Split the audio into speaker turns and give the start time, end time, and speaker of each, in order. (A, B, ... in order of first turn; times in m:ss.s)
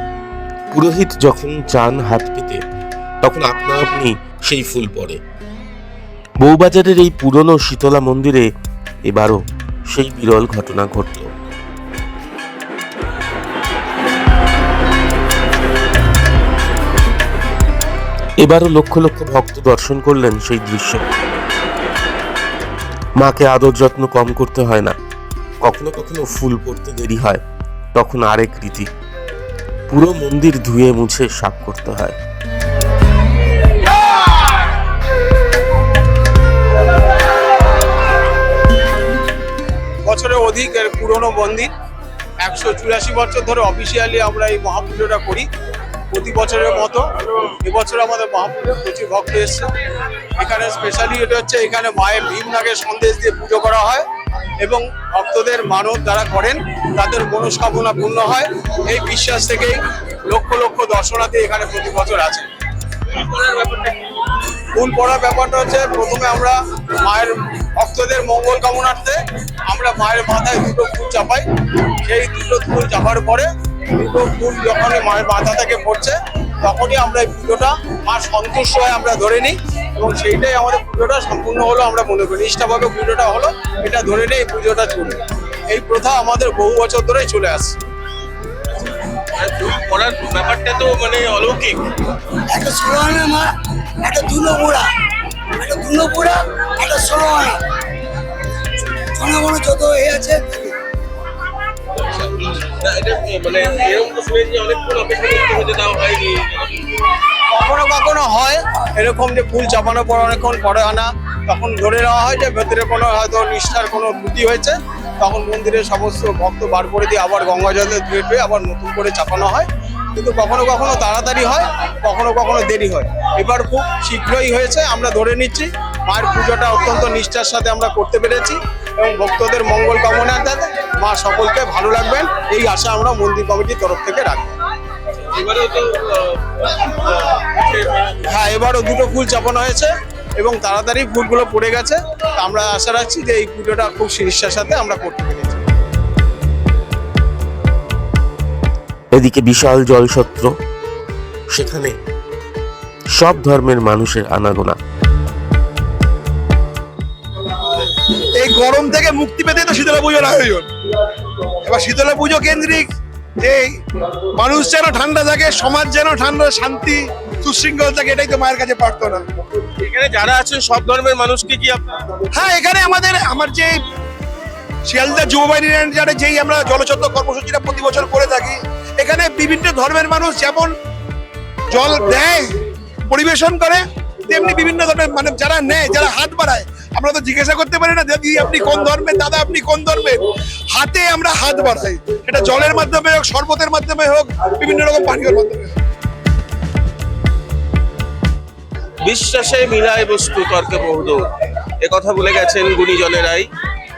0:00.7-0:02.6 A
0:03.2-0:05.2 A
0:06.4-0:08.5 A
0:09.0-0:11.3 A
0:18.4-0:21.1 A
0:23.2-0:25.0 A
0:25.6-0:27.4 A
0:27.9-0:28.9 A
0:29.9-0:32.2 A
0:40.1-0:41.7 B
0:42.4-0:45.5 B
0:46.1-0:49.7 B
0:50.4-0:54.0 B
0:54.6-1:02.5 B
1:03.1-1:04.0 B
1:04.7-1:11.4 B
1:12.0-1:27.8 B
1:28.9-1:32.0 C
1:32.4-1:37.6 D
1:39.0-1:40.7 D
1:41.9-1:47.1 C
1:47.5-2:14.5 B
2:15.3-2:17.9 C
2:18.3-2:25.6 B
2:29.1-2:30.5 A
2:31.5-2:32.0 A
2:33.1-2:34.8 A
2:38.3-2:40.7 E
2:41.6-2:42.9 E
2:43.4-2:43.8 E
2:44.3-2:49.2 E
2:49.8-2:52.0 C
2:52.3-2:53.8 E
2:54.8-3:00.7 E
3:01.7-3:02.5 E
3:03.1-3:10.2 E
3:10.7-3:15.7 E
3:19.0-3:21.3 C
3:21.8-3:23.5 C